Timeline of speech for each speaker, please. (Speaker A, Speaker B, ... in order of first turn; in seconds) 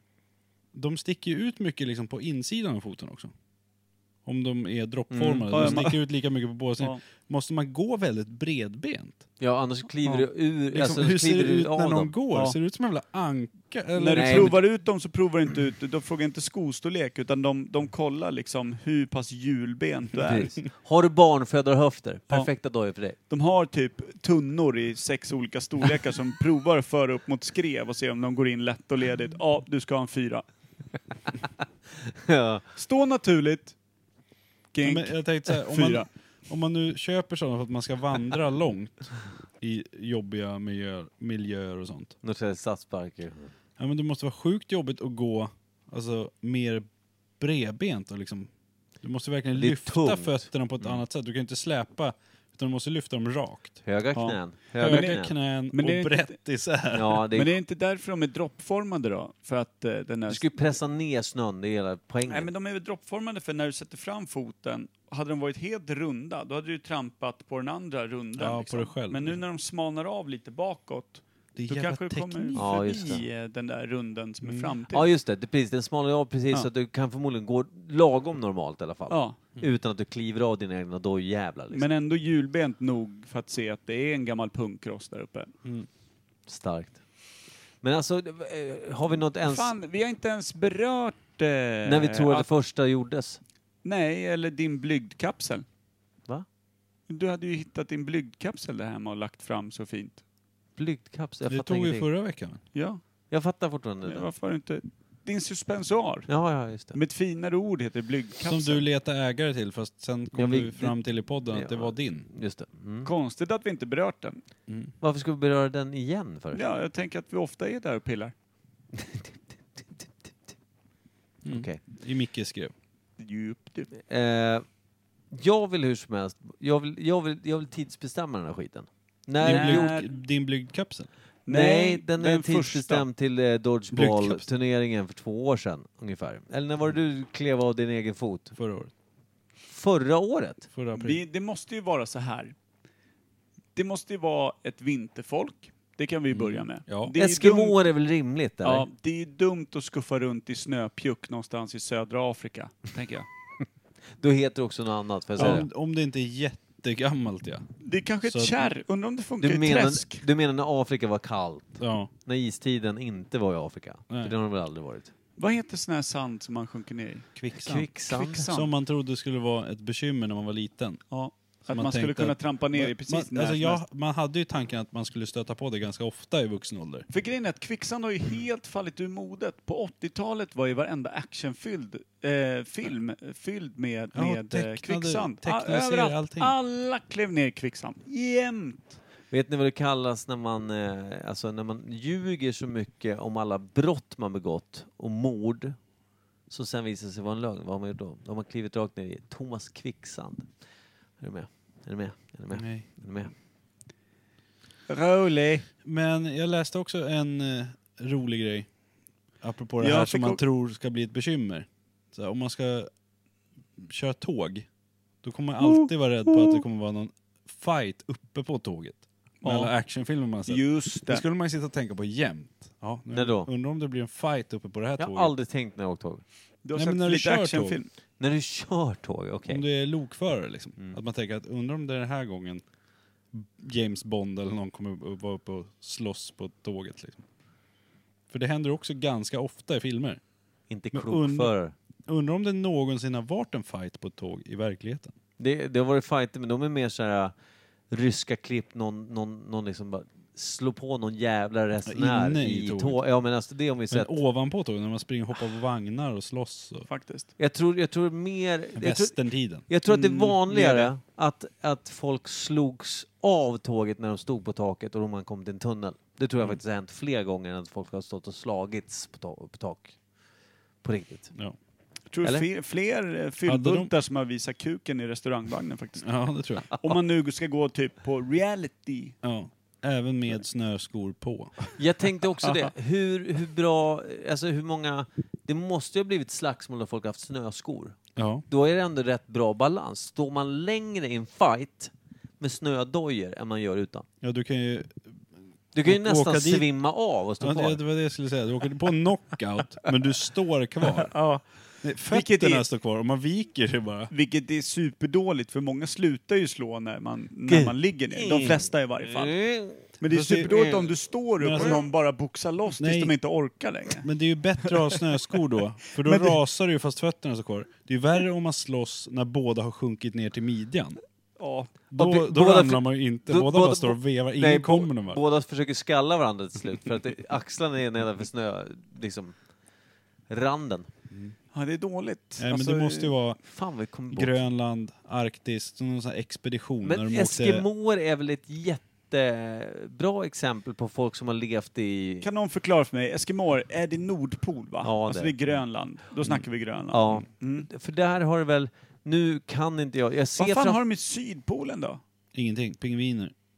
Speaker A: 0.7-3.3, 4.2-9.2, 10.7-14.6, 34.8-42.1, 43.8-46.9, 47.4-48.5, 49.0-53.8, 54.8-57.2, 68.4-69.4, 71.5-73.1, 74.4-74.7, 101.5-102.6, 108.4-112.3, 114.7-114.9, 121.4-122.7, 129.4-131.1, 133.9-134.4, 138.6-138.9, 140.7-141.2, 146.9-147.1, 155.4-157.7, 158.2-158.6, 161.8-162.1, 167.3-167.9, 168.5-171.0, 171.7-177.1, 184.1-186.5, 202.5-202.9, 205.8-208.7, 209.4-212.9, 213.8-214.7, 215.2-225.3, 226.7-227.8, 229.5-232.6, 233.3-237.2, 238.3-240.2, 240.9-241.5, 242.1-245.1, 251.8-253.0, 253.9-256.9, 258.8-259.6, 273.4-273.9, 276.0-276.7, 279.2-281.7, 288.1-288.4, 294.2-295.2, 295.8-296.7, 297.4-301.1, 301.8-304.1, 310.1-310.6, 311.4-311.8, 312.8-313.1, 314.0-321.0, 321.9-325.2, 332.4-333.4, 334.1-337.6, 352.3-353.3
Speaker B: 5.1-5.9, 9.4-12.1, 14.1-14.6, 20.2-23.2, 32.2-32.6, 42.2-43.5, 49.5-51.0, 53.8-55.3, 56.9-57.6, 60.3-62.5, 72.5-73.2, 74.9-81.8, 86.5-87.0, 87.8-89.7, 91.8-93.4, 100.8-102.1, 103.3-104.3, 106.3-107.0, 110.3-113.1, 115.0-116.6, 118.9-120.1, 121.5-121.8, 124.0-124.6, 125.3-129.9, 131.5-138.5, 139.7-140.7, 147.2-148.8, 154.2-155.7, 159.4-165.1, 167.6-168.5, 189.3-195.8, 196.5-200.5, 201.2-203.3, 223.1-223.5, 225.0-226.2, 228.2-229.6, 240.7-241.7, 245.4-247.3, 247.9-254.2, 257.4-269.9, 270.8-271.3, 281.8-294.1, 295.7-297.8, 307.5-309.9, 310.5-310.9, 321.9-329.3, 330.3-330.9, 333.4-334.3, 336.8-342.3, 344.8-345.3, 346.9-350.8
Speaker C: 5.5-6.0, 13.9-20.5, 23.3-30.4, 32.7-33.7, 34.7-36.1, 54.1-55.2, 55.7-56.4, 57.3-60.5, 62.3-75.1, 79.1-79.4, 81.7-85.5, 89.5-92.5, 93.8-95.6, 97.1-100.2, 102.7-103.0, 104.0-106.3, 106.9-108.8, 113.0-114.4, 116.5-118.3, 123.2-123.9, 129.4-130.1, 131.5-133.0, 140.9-142.5, 143.8-147.8, 148.6-153.3, 157.8-160.2, 165.4-167.3, 168.1-168.7, 171.1-173.8, 177.1-189.0, 204.9-205.7, 209.8-210.4, 215.6-216.6, 219.4-219.7, 220.4-221.2, 226.6-227.9, 256.9-257.3, 259.9-260.9, 272.1-276.1, 276.7-279.1, 282.4-282.7, 301.1-301.4, 302.1-302.6, 304.1-309.3, 310.0-314.1, 314.6-315.0, 316.0-316.4, 321.4-321.7, 331.5-333.1, 342.2-347.7, 350.4-352.0